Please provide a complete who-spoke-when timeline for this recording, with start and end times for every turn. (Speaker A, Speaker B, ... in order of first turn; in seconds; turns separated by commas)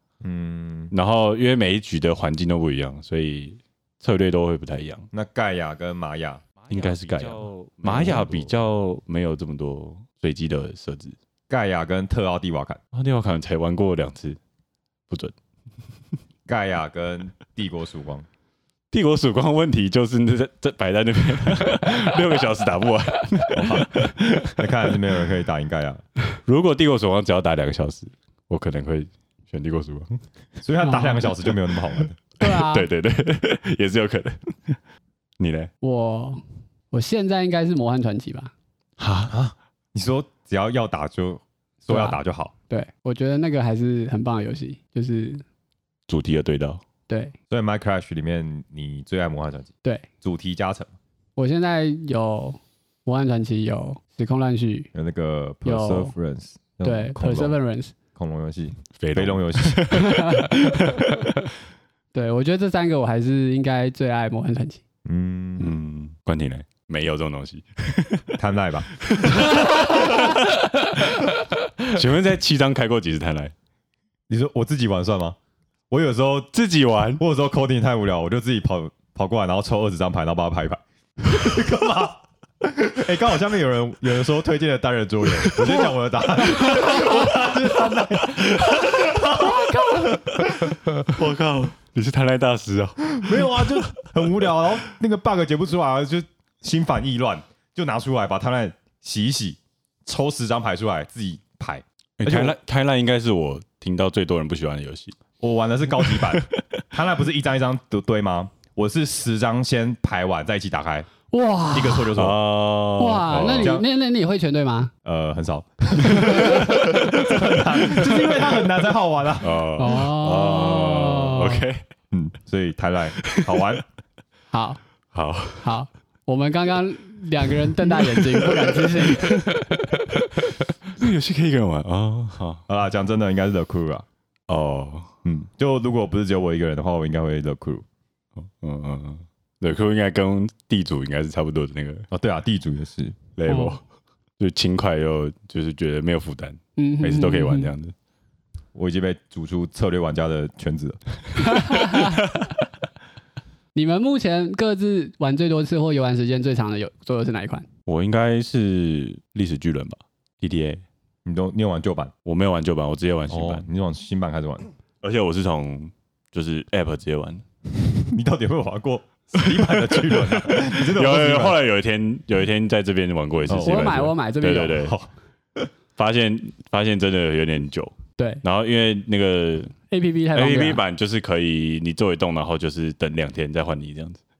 Speaker A: 0.2-0.9, Speaker B: 0.9-5.1, Speaker A: 5.1-8.5, Speaker B: 6.7-11.1, Speaker A: 11.5-12.8, Speaker B: 12.9-14.4, Speaker A: 16.5-18.2, Speaker B: 18.9-24.7, Speaker A: 23.5-26.0, Speaker B: 26.4-30.2, Speaker A: 30.6-32.2, Speaker C: 30.8-31.3, Speaker C: 32.4-32.9, Speaker B: 32.4-34.8, Speaker B: 35.4-35.7, Speaker C: 35.8-38.5, Speaker B: 39.0-39.3, Speaker A: 39.3-42.5, Speaker C: 41.9-42.2, Speaker C: 42.7-45.4, Speaker B: 46.1-46.8, Speaker C: 47.1-47.3, Speaker A: 47.5-50.9, Speaker C: 51.4-54.9, Speaker A: 54.9-57.5, Speaker C: 55.6-56.1, Speaker C: 56.8-57.9, Speaker A: 58.1-59.9, Speaker B: 59.0-61.0, Speaker C: 59.9-61.0, Speaker C: 62.1-64.8, Speaker A: 65.0-65.7, Speaker B: 65.6-68.4, Speaker A: 68.4-69.5, Speaker B: 69.0-71.0, Speaker C: 69.5-70.4, Speaker B: 71.9-73.5, Speaker A: 74.3-75.4, Speaker A: 75.9-76.5, Speaker B: 76.5-77.2, Speaker A: 77.2-90.8, Speaker B: 85.5-85.9, Speaker B: 86.8-87.1, Speaker B: 88.4-89.0, Speaker C: 89.4-90.0, Speaker B: 90.4-94.1, Speaker A: 93.2-102.5, Speaker B: 102.2-105.2, Speaker A: 105.4-111.1, Speaker B: 106.0-106.5, Speaker C: 111.3-112.1, Speaker A: 111.7-112.4, Speaker B: 112.2-113.8, Speaker C: 113.0-114.9, Speaker A: 113.3-113.8, Speaker A: 115.0-119.6, Speaker C: 116.1-117.3, Speaker B: 119.4-121.8, Speaker C: 119.8-121.7, Speaker A: 122.1-123.8, Speaker B: 123.2-123.6, Speaker C: 124.5-124.8, Speaker B: 125.1-125.7, Speaker C: 125.6-130.0, Speaker B: 127.8-130.2, Speaker B: 130.9-132.6, Speaker A: 132.7-134.1, Speaker B: 134.5-135.1, Speaker A: 135.2-137.8, Speaker B: 138.4-142.1, Speaker A: 142.1-143.3, Speaker B: 143.4-143.8, Speaker C: 143.5-143.8, Speaker B: 144.4-147.9, Speaker C: 146.8-147.7, Speaker A: 148.7-151.0, Speaker C: 151.5-152.2, Speaker C: 153.7-157.7, Speaker B: 157.9-160.8, Speaker A: 161.2-162.1, Speaker B: 162.2-163.7, Speaker A: 163.3-164.7, Speaker B: 165.0-167.4, Speaker A: 167.8-171.6, Speaker B: 169.4-175.0, Speaker A: 173.5-174.0, Speaker C: 173.6-174.9, Speaker A: 174.8-175.7, Speaker B: 176.0-179.8, Speaker C: 179.9-180.8, Speaker B: 180.3-184.2